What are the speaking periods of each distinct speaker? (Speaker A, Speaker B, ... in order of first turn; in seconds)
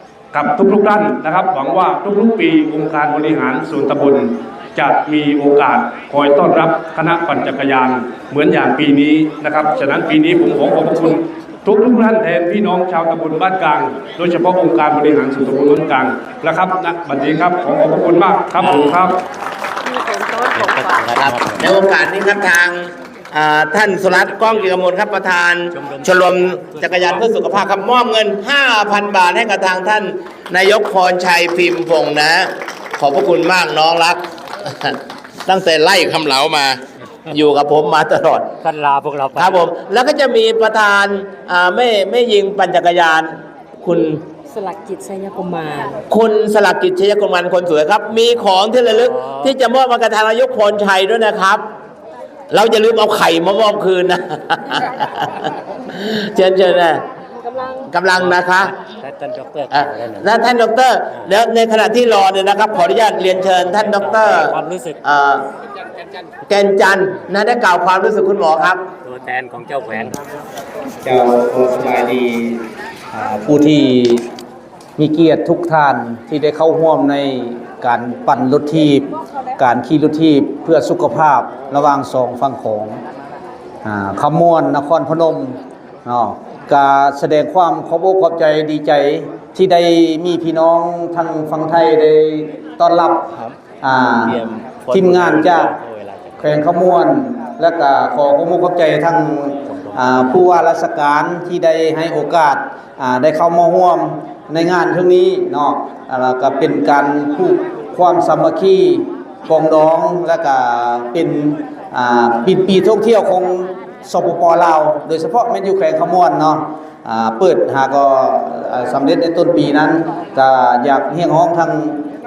Speaker A: 0.3-19.2
Speaker B: 18.6-19.1, 20.5-21.7, 25.7-27.2, 38.6-39.7, 49.0-49.5, 58.2-60.3, 63.6-65.0, 69.0-70.2, 94.3-96.5, 99.7-100.7
Speaker C: 19.9-21.1, 44.5-46.0, 57.4-57.8
Speaker D: 21.2-38.5, 39.4-44.2, 46.1-51.6, 52.5-57.0, 57.9-58.7, 59.7-65.4, 66.5-68.8
Speaker E: 71.0-72.6, 73.1-74.2, 75.0-83.0, 83.8-95.8, 96.4-122.0